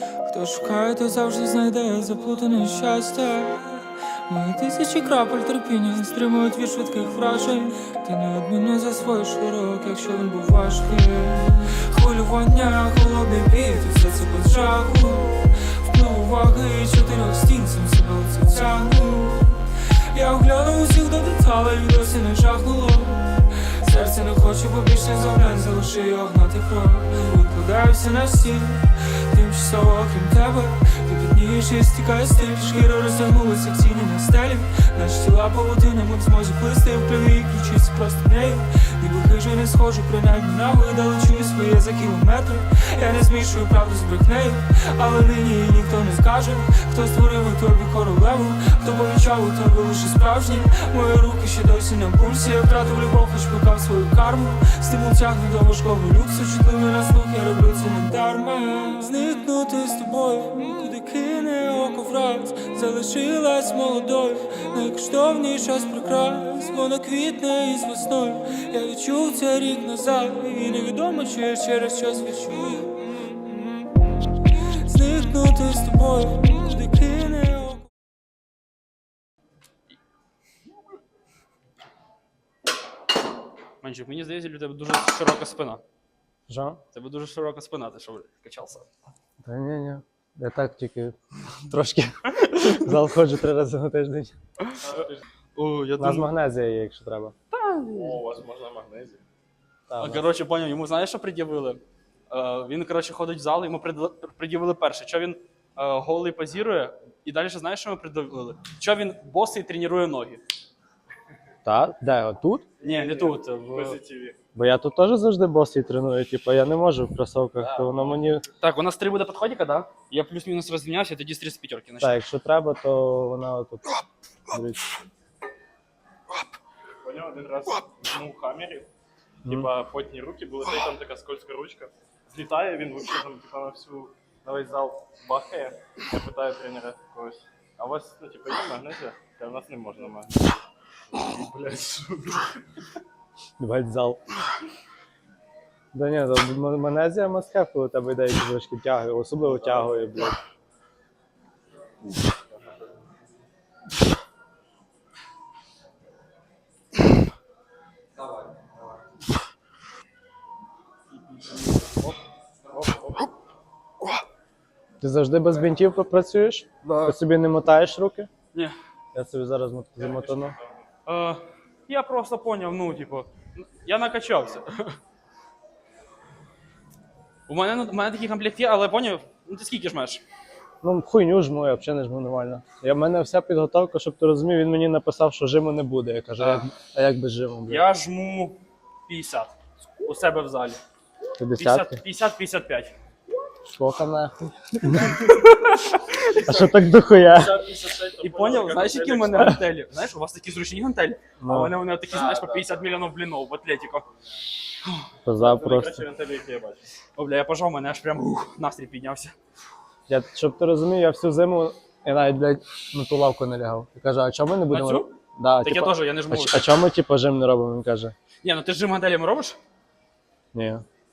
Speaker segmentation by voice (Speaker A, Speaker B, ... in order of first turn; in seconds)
Speaker A: 0.3-77.9
Speaker B: 83.8-85.8, 86.9-88.9, 94.7-94.9, 95.6-96.3, 97.5-98.2, 100.0-110.4, 112.8-114.0, 118.6-122.2, 166.9-167.2, 171.1-175.0, 177.5-180.2, 186.4-186.7, 187.7-190.8, 191.6-192.9, 198.2-204.1, 207.2-209.3, 214.7-216.8, 218.4-219.6
Speaker C: 86.5-86.8, 89.4-91.2, 91.7-94.3, 96.0-97.3, 99.9-100.2, 111.7-112.7, 114.5-118.5, 122.0-123.9, 124.5-124.8, 129.4-129.7, 143.6-144.2, 145.9-150.4, 165.0-168.3, 169.1-170.6, 180.8-187.9, 191.4-192.0, 193.7-195.3, 196.4-197.6, 199.3-199.6, 201.4-201.7, 205.2-206.0, 210.1-218.1, 220.5-220.8
Speaker D: 97.9-99.2, 112.8-114.4, 127.0-128.9, 129.5-142.6, 161.2-162.2, 162.7-163.3, 170.0-170.5, 196.3-199.6, 205.4-206.9